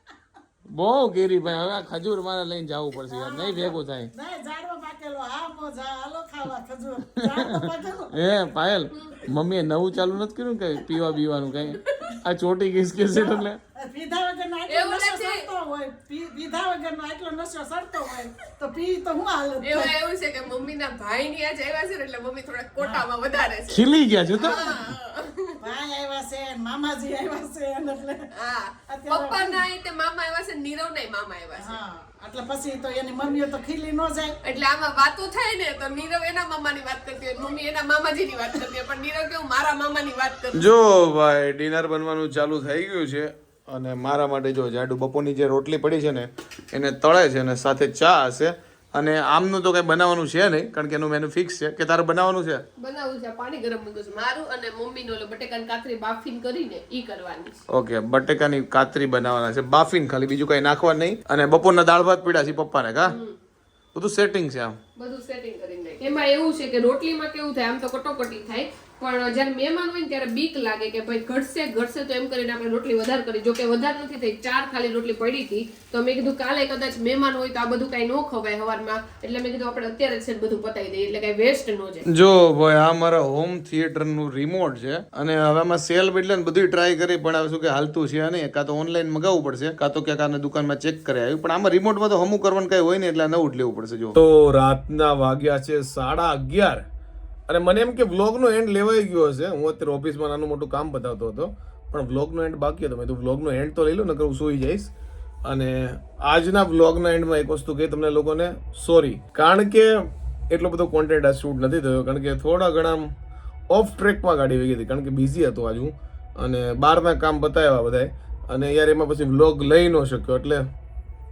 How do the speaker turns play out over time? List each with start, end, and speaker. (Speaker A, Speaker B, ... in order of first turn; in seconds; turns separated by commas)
Speaker A: 0.7-4.1, Speaker B: 2.9-8.2, Speaker A: 7.3-13.6, Speaker C: 8.9-9.2, Speaker C: 11.6-12.2, Speaker B: 13.1-19.9, Speaker C: 14.7-15.5, Speaker C: 19.6-25.6, Speaker B: 22.8-23.1, Speaker A: 23.7-24.6, Speaker B: 25.6-28.2, Speaker C: 28.3-31.8, Speaker B: 28.9-29.6, Speaker B: 31.6-34.4, Speaker C: 34.4-40.7, Speaker A: 40.5-52.6, Speaker C: 52.8-57.6, Speaker A: 57.7-63.1, Speaker C: 63.0-63.4, Speaker A: 63.9-64.8, Speaker C: 65.0-82.1, Speaker A: 82.1-96.8, Speaker A: 97.5-104.9, Speaker A: 105.4-109.9, Speaker A: 110.5-113.1, Speaker A: 113.7-120.7